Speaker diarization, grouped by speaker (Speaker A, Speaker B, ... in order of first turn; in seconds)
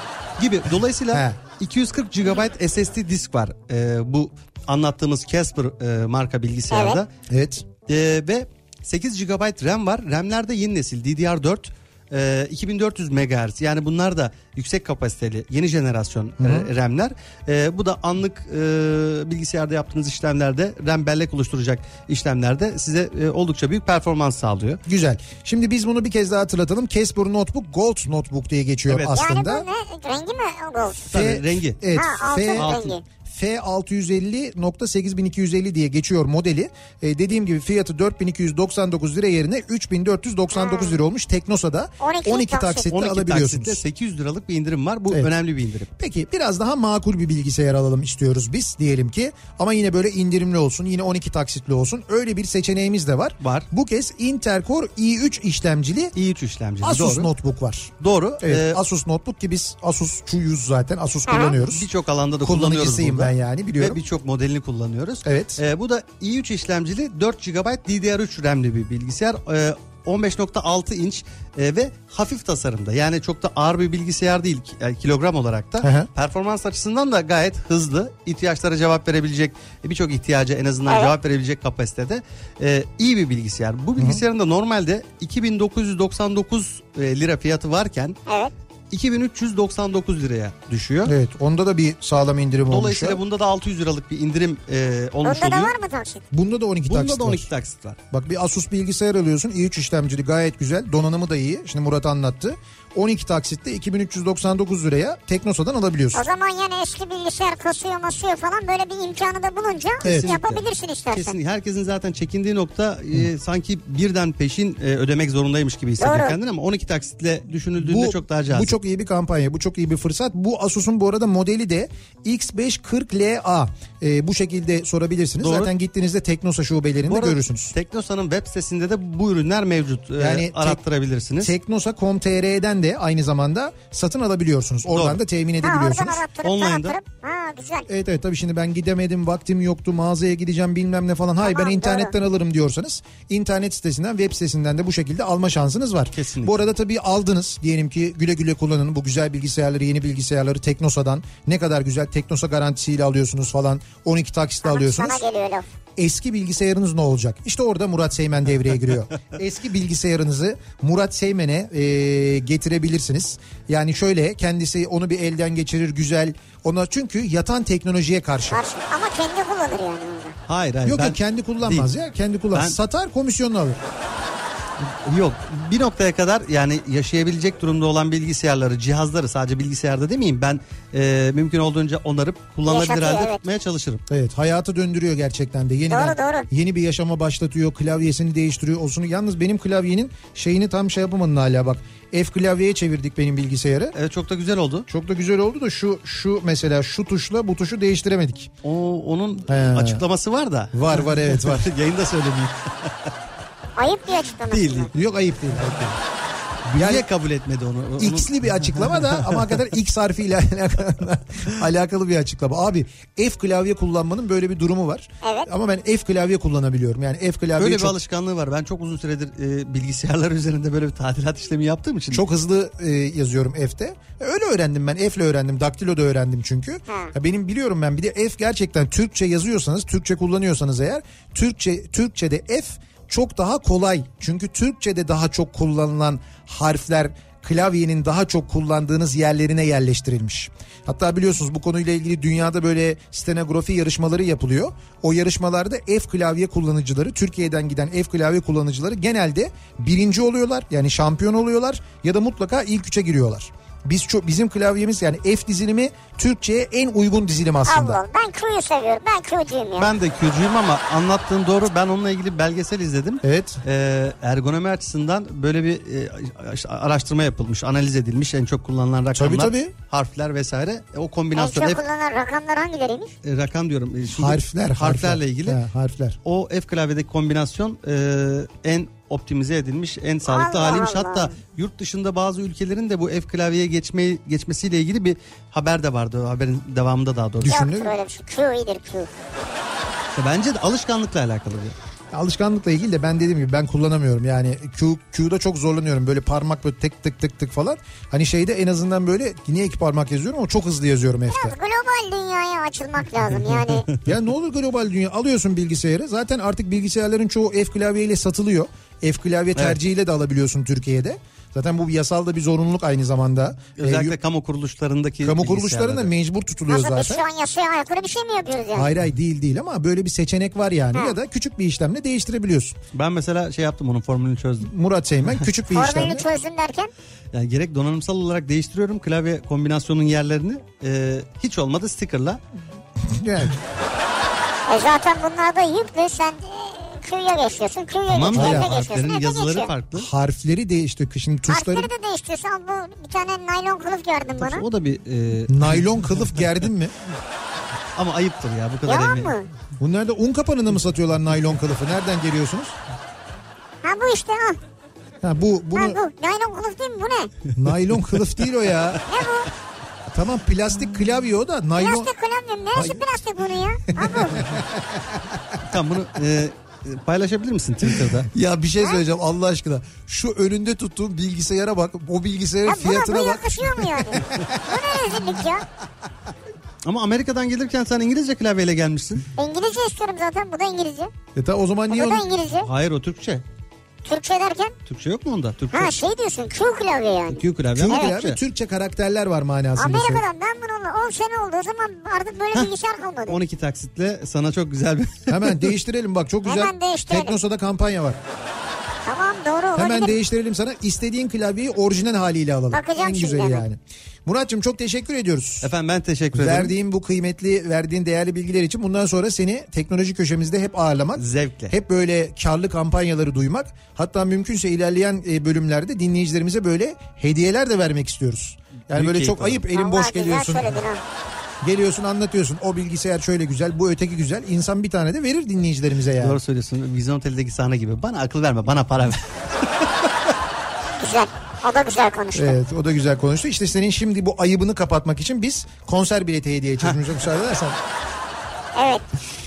Speaker A: 0.4-7.1, 7.8-24.8, 28.9-29.1, 31.1-31.8, 32.5-33.0, 42.9-45.9, 53.4-53.7, 56.1-57.3, 58.0-58.8, 61.6-88.2, 88.9-91.1, 92.7-95.7, 96.8-98.0, 110.0-118.7, 125.4-125.7, 127.1-131.5, 134.9-135.2, 136.4-137.0, 146.1-146.6, 170.5-171.9, 174.8-184.0, 193.9-194.9, 198.6-203.1, 204.5-204.9, 206.7-209.6, 217.6-222.2, 259.8-271.8, 273.2-275.6, 276.2-287.6, 290.1-291.7, 303.5-303.8, 313.8-316.1, 322.9-324.7, 327.3-332.4, 338.1-340.1, 344.4-346.5, 347.9-349.4, 365.6-368.3, 376.8-379.3, 382.6-383.4, 384.9-386.0, 387.3-388.4, 393.3-395.6, 405.6-406.7, 411.1-411.7, 418.9-419.6, 426.2-429.8
Speaker B: 1.1-1.4, 7.3-7.6, 16.4-16.7, 24.9-29.6, 31.1-43.8, 46.0-56.1, 56.8-61.9, 62.4-64.0, 65.2-65.6, 75.8-76.1, 84.0-84.2, 91.0-93.2, 96.3-97.5, 98.1-106.2, 110.0-110.3, 117.8-127.7, 130.2-130.8, 131.4-136.2, 137.9-155.2, 156.0-168.6, 170.8-173.8, 184.1-193.9, 194.9-198.5, 199.5-200.0, 200.7-201.7, 204.9-206.0, 206.7-207.0, 208.0-217.9, 222.1-258.0, 263.2-263.6, 269.1-269.7, 274.1-276.2, 287.4-287.9, 292.1-301.6, 304.0-314.1, 315.2-317.2, 318.7-322.8, 324.6-326.2, 333.0-333.6, 338.3-338.7, 339.9-341.9, 345.5-346.9, 349.8-352.8, 355.2-356.0, 357.6-359.1, 360.1-362.1, 362.7-363.0, 363.9-365.2, 368.1-374.6, 381.4-382.2, 387.7-390.2, 395.3-398.2, 399.8-405.7, 406.3-420.8, 421.6-426.4, 432.3-437.8
Speaker C: 6.7-7.0, 29.1-31.1, 31.9-33.0, 40.5-41.0, 42.0-42.9, 61.3-61.6, 80.9-81.1, 88.3-88.5, 95.2-96.2, 106.1-111.4, 116.0-116.4, 135.6-137.9, 141.4-142.1, 154.6-155.7, 168.5-170.4, 182.7-183.4, 185.9-186.5, 203.8-204.9, 215.2-215.5, 226.9-227.1, 257.6-259.9, 271.3-273.1, 280.2-281.3, 287.5-289.1, 301.3-303.9, 316.7-318.9, 325.7-326.9, 334.7-339.7, 341.5-344.6, 348.9-349.5, 353.8-354.6, 355.7-357.3, 359.1-359.5, 361.8-364.5, 372.6-375.6, 379.4-381.1, 381.9-382.7, 384.0-384.7, 385.7-388.1, 389.8-393.4, 396.4-397.4, 399.0-400.1, 402.7-403.6, 419.7-421.0, 431.0-432.6, 438.7-439.0